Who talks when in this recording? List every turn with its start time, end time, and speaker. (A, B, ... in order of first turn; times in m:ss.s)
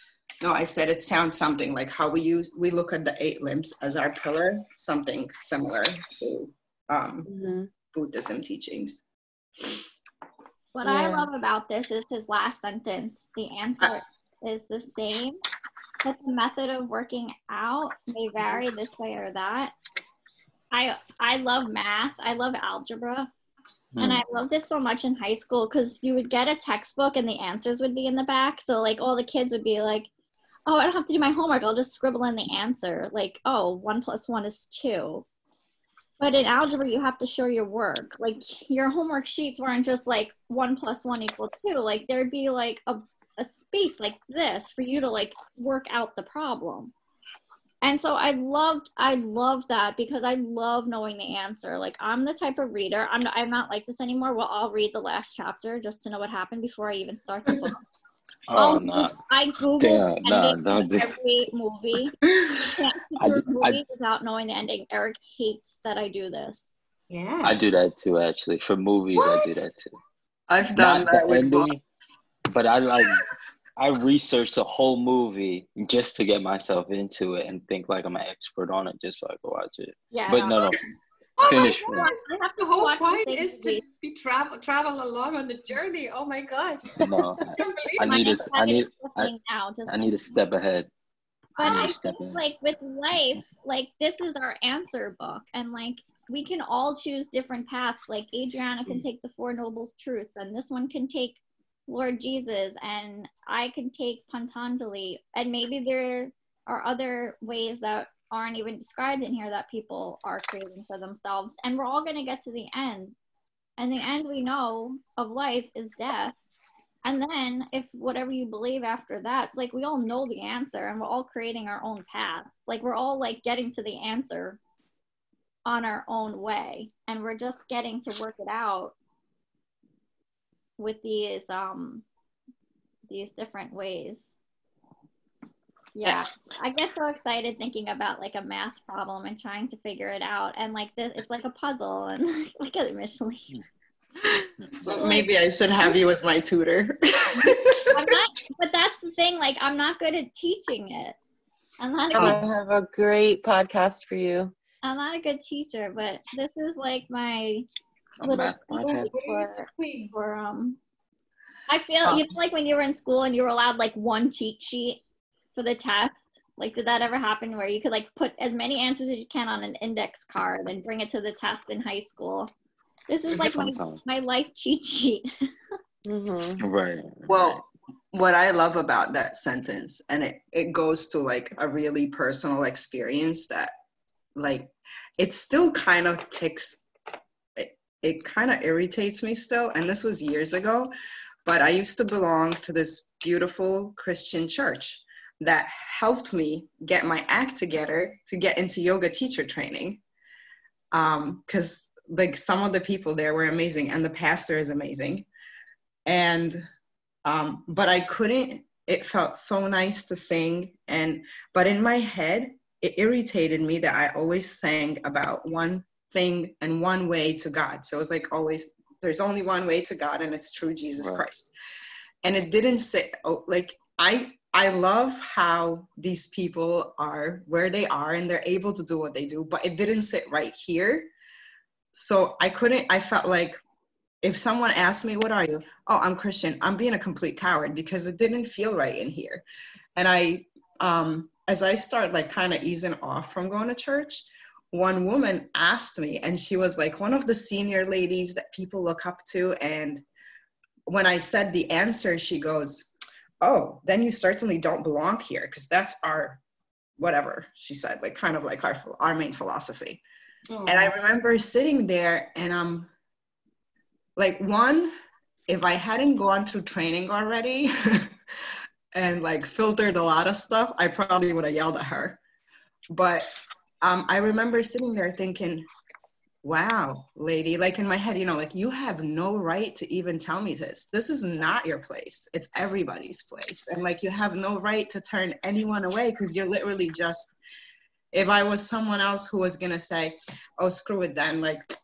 0:00.4-0:07.3 A
0:07.2-0:07.7 B
0:07.9-0:09.0 A
0:10.7-0:15.4 C
0:10.8-0:11.3 B
0:16.0-0:19.7 C
0:20.7-0:23.3 C
0:24.0-0:24.2 D
0:24.0-0:30.1 C
0:30.6-0:35.2 C
0:36.2-0:46.9 C
0:47.8-0:57.8 C
0:58.5-0:59.2 D
0:58.5-1:06.7 C
0:59.8-1:01.1 D
1:03.2-1:03.8 D
1:07.1-1:07.6 E
1:07.4-1:09.9 D
1:09.1-1:09.7 E
1:10.5-1:11.8 A
1:10.7-1:11.8 D
1:12.5-1:13.2 D
1:13.8-1:20.8 D
1:20.1-1:20.8 C
1:21.4-1:28.4 E
1:21.4-1:23.8 C
1:21.4-1:22.1 D
1:27.0-1:29.3 D
1:28.0-1:30.1 C
1:29.9-1:30.9 D
1:31.6-1:31.9 E
1:31.6-1:53.1 C
1:31.6-1:32.4 D
1:33.1-1:33.4 D
1:53.8-1:56.3 C
1:57.0-2:04.6 C
2:05.6-2:08.9 C
2:10.8-2:12.0 C
2:13.1-2:14.3 C
2:15.9-2:23.5 C
2:24.8-2:28.1 A
2:24.9-2:25.3 C
2:27.9-2:31.2 C
2:31.8-2:32.4 C
2:32.1-2:32.4 A
2:32.1-2:34.6 B
2:34.8-2:37.6 C
2:38.2-2:39.1 D
2:38.2-2:40.8 C
2:38.8-2:40.1 A
2:41.7-2:45.0 C
2:45.5-2:52.5 C
2:53.1-2:55.5 C
2:53.3-2:54.0 D
2:56.0-2:56.6 B
2:56.6-2:57.6 D
2:57.3-3:03.7 A
3:04.4-3:06.8 A
3:07.6-3:10.9 A
3:11.4-3:20.0 A
3:20.9-3:25.2 A
3:26.0-3:26.6 A
3:27.2-3:41.5 A
3:41.0-3:41.2 D
3:42.2-3:51.1 A
3:51.9-3:53.6 A
3:54.2-3:59.4 A
4:00.0-4:10.0 A
4:10.9-4:12.9 A
4:13.4-4:16.4 A
4:17.0-4:20.0 A
4:20.5-4:20.9 E
4:20.7-4:22.9 A
4:24.2-4:24.9 A
4:25.5-4:28.1 A
4:28.9-4:32.2 A
4:32.9-4:33.3 A
4:33.8-4:35.7 A
4:36.4-4:47.3 A
4:48.1-4:51.6 A